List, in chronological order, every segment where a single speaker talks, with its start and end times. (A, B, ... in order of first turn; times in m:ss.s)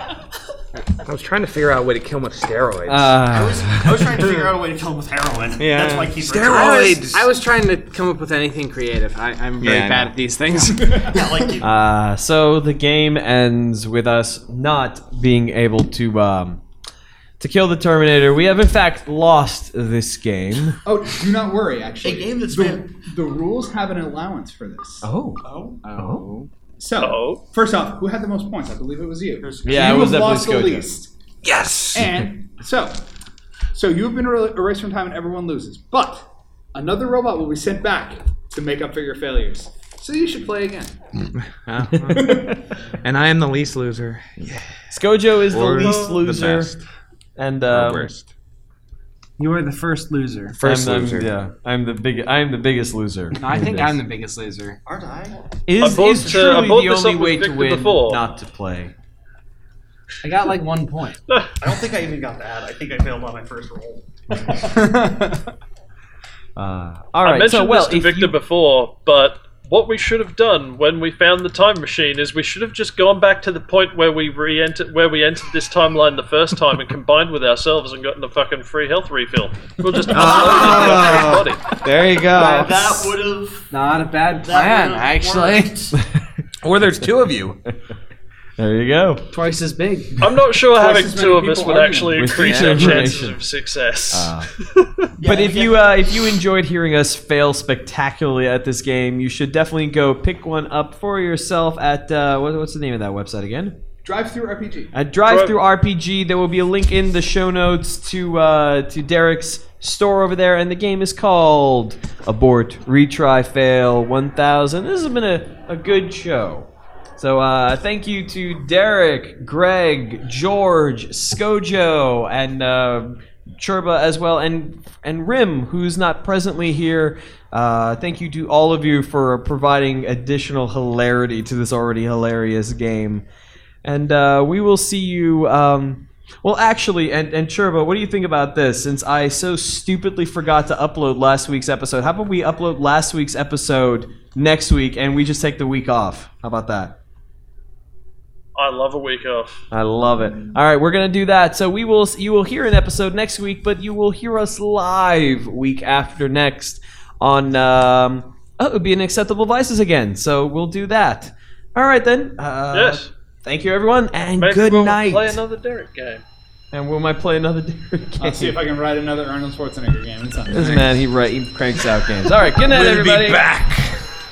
0:01.0-0:03.9 A
0:02.9-0:03.8 B
0:03.3-0:07.0 C
0:05.6-0:07.3 A
0:06.5-0:11.3 D
0:09.6-0:10.1 A
0:10.8-0:11.1 E
0:11.1-0:11.7 C
0:11.6-0:16.6 B
0:17.4-0:20.8 B
0:20.8-0:25.1 E
0:22.0-0:22.9 C
0:25.0-0:26.2 B
0:25.4-0:25.8 C
0:26.8-0:31.1 E
0:27.0-0:27.4 F
0:29.4-0:29.8 C
0:29.6-0:30.8 B
0:31.4-0:32.3 A
0:31.9-0:33.0 E
0:33.7-0:40.9 E
0:41.6-0:44.7 A
0:42.1-0:42.4 B
0:42.1-0:42.5 E
0:44.9-0:46.7 B
0:45.5-0:46.8 A
0:47.4-0:48.1 B
0:47.7-0:48.3 A
0:49.4-0:50.6 D
0:50.6-0:51.3 A
0:50.6-0:54.0 B
0:53.3-0:54.8 D
0:54.8-0:55.4 C
0:55.6-0:58.9 B
0:55.8-0:58.2 F
1:00.2-1:01.2 D
1:01.6-1:04.4 C
1:04.6-1:05.5 D
1:06.6-1:08.4 B
1:07.2-1:21.7 F
1:20.0-1:23.2 A
1:20.6-1:20.8 C
1:22.2-1:23.7 C
1:23.7-1:25.8 D
1:24.4-1:26.0 C
1:25.9-1:26.2 B
1:26.6-1:27.6 A
1:28.6-1:29.2 B
1:29.3-1:30.2 D
1:30.2-1:34.9 F
1:30.7-1:33.1 E
1:32.1-1:33.4 B
1:34.1-1:34.5 B
1:35.2-1:35.9 C
1:35.2-1:43.8 B
1:44.0-1:44.9 E
1:44.9-2:13.2 B
1:45.3-1:45.6 F
2:13.8-2:27.0 B
2:28.6-2:29.6 F
2:29.7-2:45.4 B
2:42.7-2:43.1 F
2:44.4-2:46.2 F
2:46.7-2:48.6 B
2:48.2-2:50.9 E
2:50.5-2:53.4 B
2:52.6-2:54.0 A